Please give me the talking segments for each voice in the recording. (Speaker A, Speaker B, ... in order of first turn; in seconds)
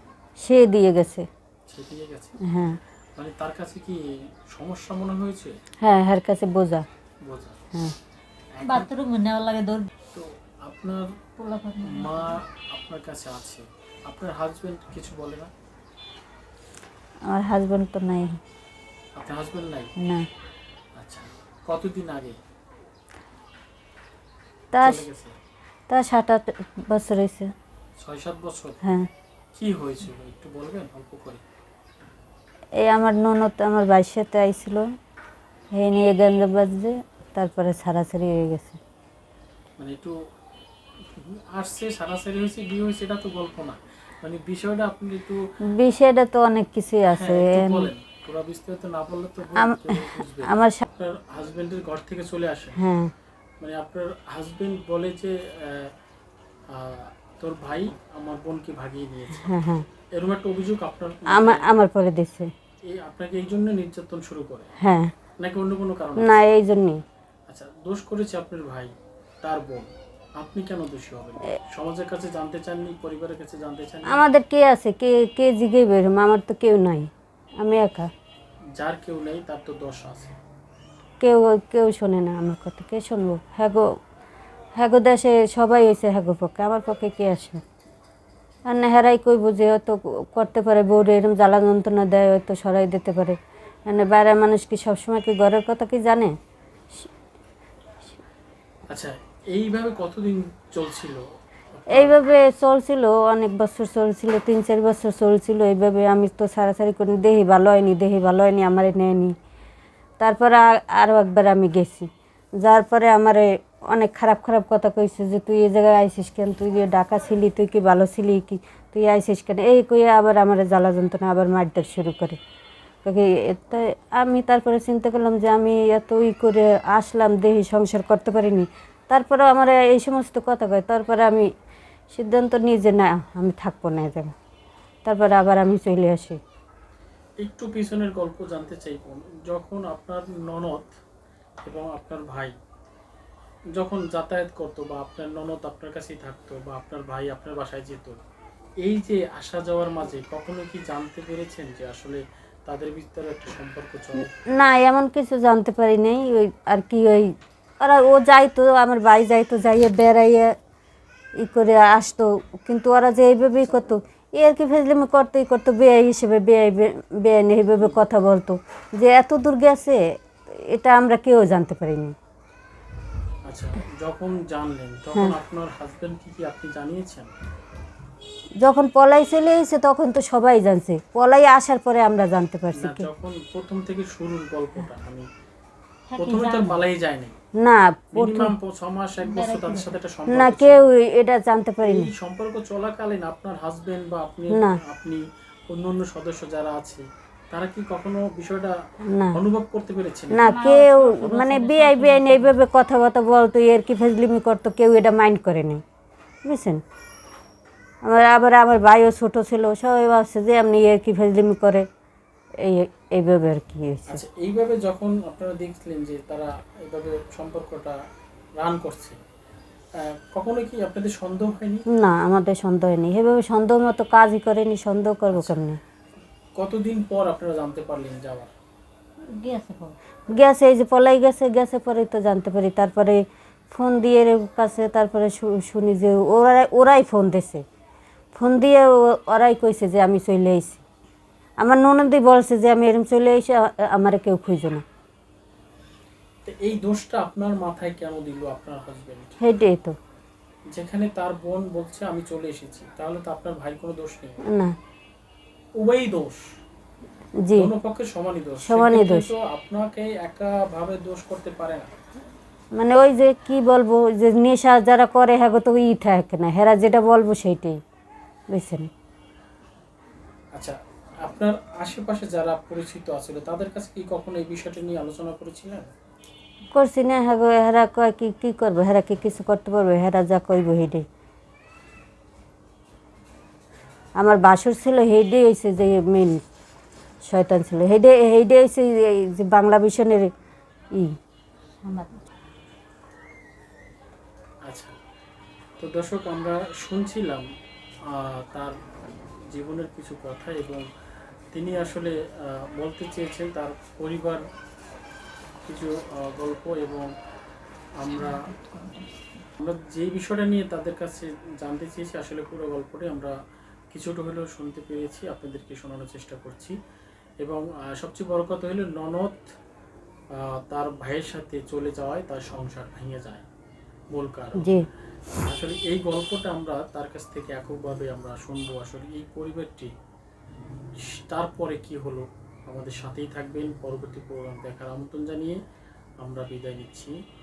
Speaker A: 0.4-1.3, 2.4-2.8, 5.8-6.8, 17.3-18.4, 20.0-20.3, 24.7-25.0, 25.9-27.5, 28.8-29.1, 32.8-34.8, 35.7-38.8, 45.7-47.9, 49.6-50.8, 52.8-53.1, 59.4-59.8, 61.3-62.5, 64.8-65.1, 66.2-67.0, 74.0-78.1, 81.2-83.9, 84.8-87.6, 88.7-96.3, 101.9-109.3, 110.2-112.1, 112.6-122.4, 123.0-131.5, 132.1-134.3, 135.0-136.4, 154.6-160.5, 161.4-170.0, 170.7-172.1, 178.6-183.0, 187.6-188.5, 190.3-192.1, 194.5-194.8, 199.1-199.4, 200.3-205.8, 206.4-206.8, 208.0-211.8, 212.6-214.2, 221.9-225.8, 230.3-237.6, 238.3-240.8, 241.6-244.8, 249.4-249.9, 254.4-254.7, 257.4-257.7, 258.6-259.3, 262.8-267.8, 268.5-268.9, 276.7-281.0, 284.2-286.4, 287.2-290.3, 324.6-324.9
Speaker B: 1.7-2.4, 3.1-5.6, 7.2-7.6, 8.5-8.9, 10.1-11.2, 11.8-15.5, 19.1-19.9, 21.0-22.4, 24.8-25.3, 28.0-28.8, 29.5-31.4, 39.8-40.1, 41.1-45.4, 47.1-52.8, 53.6-55.9, 56.7-59.5, 60.1-61.7, 62.9-64.7, 65.4-66.3, 67.5-74.2, 78.8-80.4, 98.9-101.2, 101.7-102.2, 137.4-140.9, 141.6-142.5, 143.7-148.2, 148.8-154.3, 173.4-177.3, 182.7-185.2, 186.2-187.3, 188.1-190.8, 191.8-198.8, 199.3-200.6, 214.1-218.0, 218.6-219.2, 220.0-221.8, 225.3-225.6, 226.6-228.5, 246.4-249.4, 250.7-254.4, 255.8-256.4, 257.5-261.9, 270.5-275.9, 294.7-294.9, 295.8-297.5, 298.1-298.8, 299.5-300.9, 301.5-304.4, 305.6-307.1, 307.9-308.4, 309.6-313.3, 313.9-316.8, 317.4-319.4, 320.3-323.4, 324.1-324.8, 325.3-329.9, 331.0-335.6, 336.2-337.1
Speaker C: 8.6-9.9, 11.4-12.4, 186.1-186.8, 189.2-189.9, 200.4-202.6, 229.2-229.9, 291.8-292.2, 308.1-309.4